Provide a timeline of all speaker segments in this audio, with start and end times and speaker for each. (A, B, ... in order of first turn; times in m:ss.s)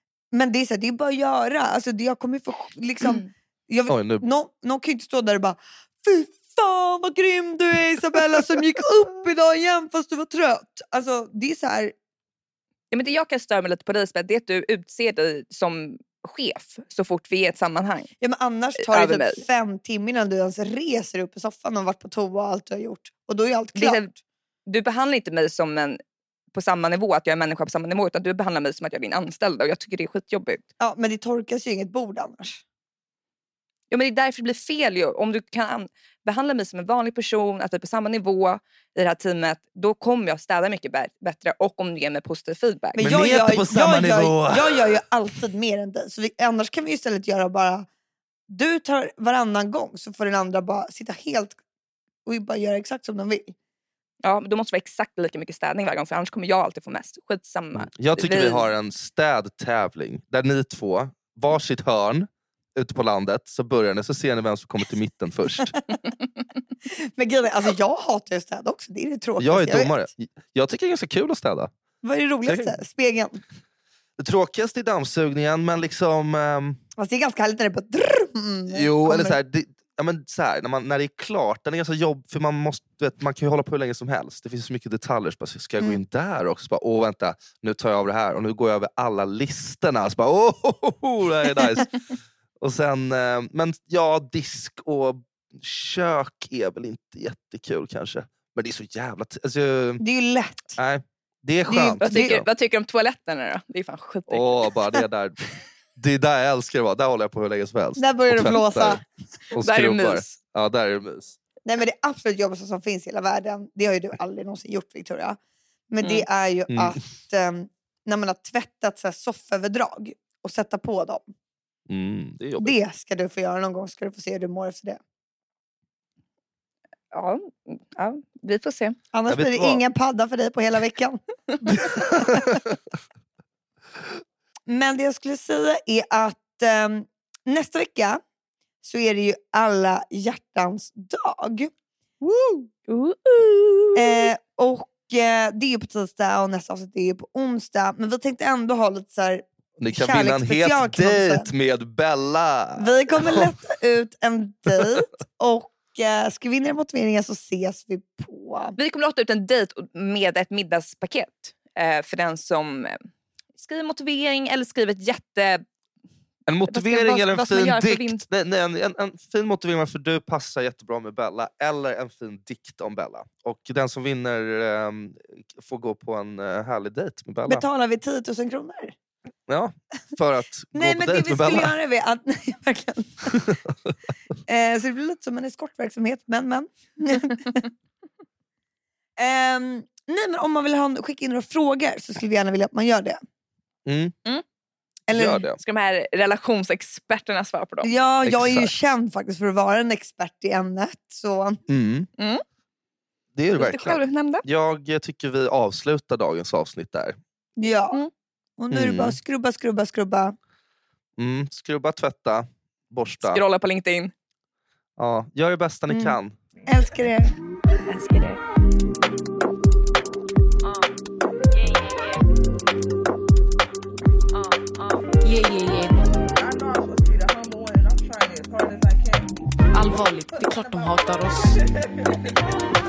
0:00.3-0:11.9 A
0:03.0-0:03.3 B
0:03.9-0:04.2 C
0:12.9-0:18.1 B
0:18.2-0:24.0 A
0:18.8-0:19.4 B
0:23.8-0:24.1 B
0:24.7-0:26.0 B
0:26.5-0:30.6 B
0:30.8-0:32.6 A
0:33.9-0:43.1 B
0:43.0-0:47.9 A
0:43.0-0:45.0 C
0:48.5-0:51.6 A
0:52.2-0:53.6 A
0:54.2-0:58.7 B
0:57.7-1:05.8 C
1:07.2-1:10.0 A
1:09.4-1:11.7 C
1:12.0-1:13.4 A
1:12.5-1:12.7 C
1:14.2-1:16.8 C
1:17.0-1:19.4 A
1:18.7-1:31.9 C
1:32.6-1:40.0 C
1:40.0-1:40.8 A
1:40.8-1:42.5 C
1:41.7-1:44.7 B
1:44.3-1:45.4 C
1:46.0-1:51.4 C
1:48.0-1:49.0 A
1:49.6-1:50.4 B
1:51.6-1:55.4 A
1:55.9-2:01.3 A
1:56.7-1:57.0 C
2:01.9-2:02.7 C
2:02.6-2:05.0 A
2:07.1-2:09.0 B
2:09.1-2:12.5 A
2:09.3-2:09.8 C
2:11.9-2:12.5 C
2:14.7-2:18.2 A
2:18.8-2:21.7 A
2:22.2-2:24.3 B
2:24.0-2:31.5 A
2:29.8-2:33.5 C
2:32.8-2:38.8 A
2:34.7-2:35.0 C
2:38.8-2:43.0 B
2:43.6-2:45.6 B
2:46.5-2:57.6 C
2:46.7-2:48.2 B
2:57.5-2:58.9 A
2:59.5-3:01.7 C
3:00.7-3:03.5 A
3:04.5-3:07.6 A
3:09.2-3:13.2 A
3:13.9-3:14.2 C
3:15.1-3:15.4 A
3:15.1-3:15.6 C
3:15.6-3:17.9 B
3:17.8-3:21.6 A
3:18.2-3:18.7 C
3:21.7-3:22.1 C
3:22.2-3:22.4 B
3:23.4-3:27.2 C
3:23.6-3:24.4 B
3:27.6-3:28.0 A
3:28.6-3:30.4 A
3:28.7-3:29.2 C
3:31.2-3:33.4 C
3:33.2-3:34.1 B
3:35.0-3:36.4 C
3:35.9-3:37.3 A
3:37.8-3:38.4 B
3:45.2-3:46.0 D
3:46.2-3:52.4 E
3:49.7-3:51.6 D